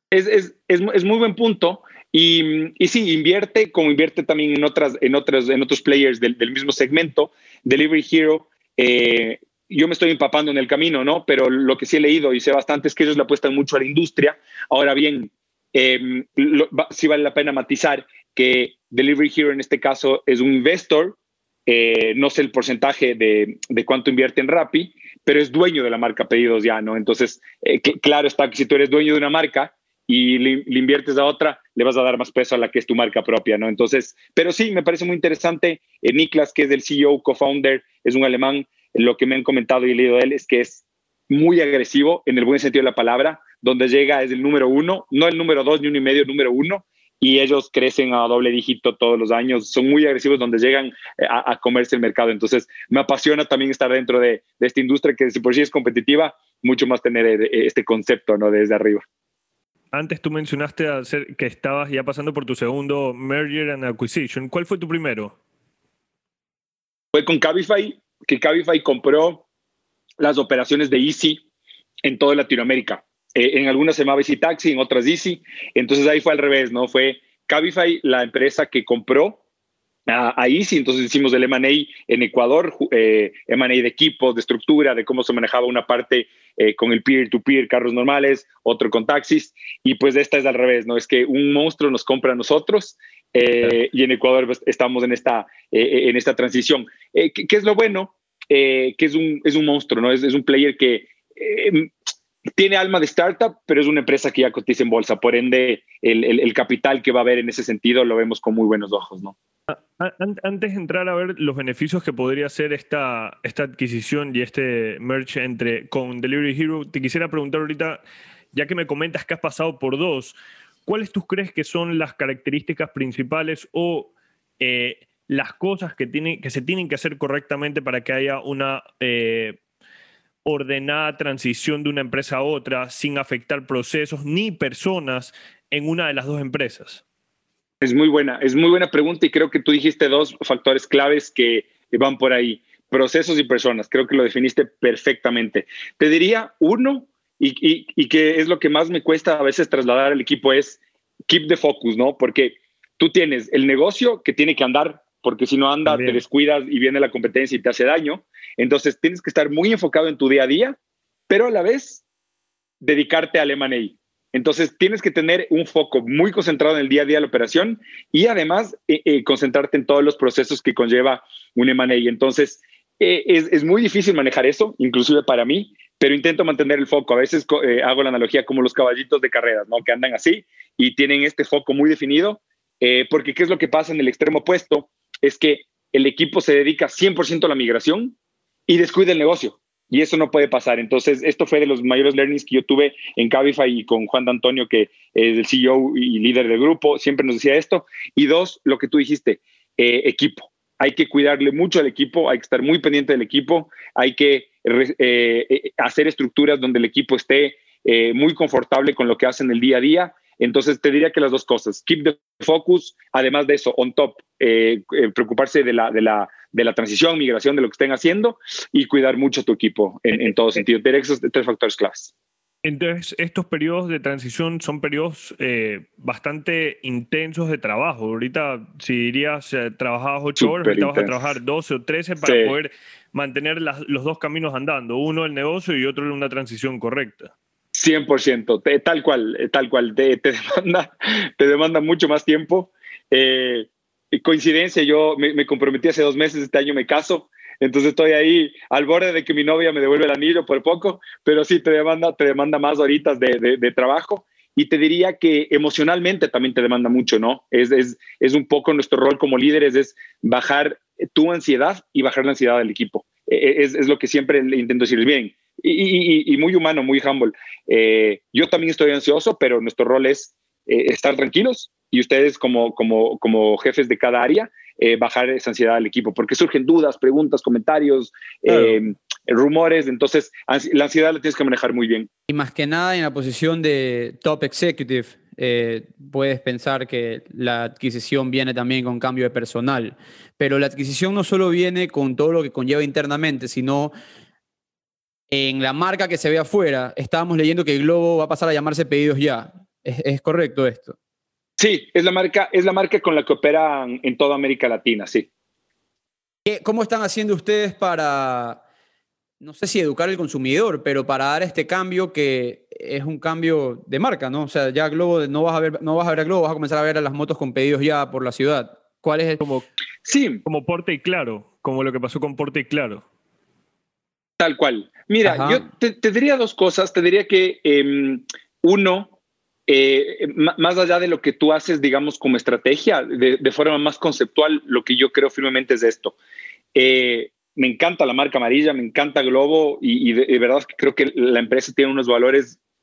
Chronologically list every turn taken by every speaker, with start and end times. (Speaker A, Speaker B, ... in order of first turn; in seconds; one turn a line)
Speaker A: 0.1-59.0
Speaker B: 59.9-65.3
Speaker A: 67.1-69.4
Speaker A: 70.2-71.4
Speaker A: 72.0-79.4
Speaker A: 80.1-101.9
Speaker A: 102.6-109.3
Speaker B: 109.7-129.6
Speaker B: 130.4-137.0
Speaker A: 137.8-160.8
Speaker B: 155.8-156.2
Speaker A: 161.3-162.0
Speaker A: 162.8-188.1
Speaker A: 188.7-222.1
Speaker B: 222.6-237.3
Speaker A: 230.4-231.3
Speaker A: 232.2-232.5
Speaker A: 237.7-282.1
Speaker C: 282.3-293.9
Speaker C: 295.3-300.9
Speaker A: 301.6-305.3
Speaker C: 306.4-308.6
Speaker C: 309.4-319.4
Speaker A: 320.0-320.4
Speaker B: 320.4-323.0
Speaker A: 324.4-329.1
Speaker C: 325.2-325.6
Speaker A: 329.7-336.1
Speaker A: 336.7-342.6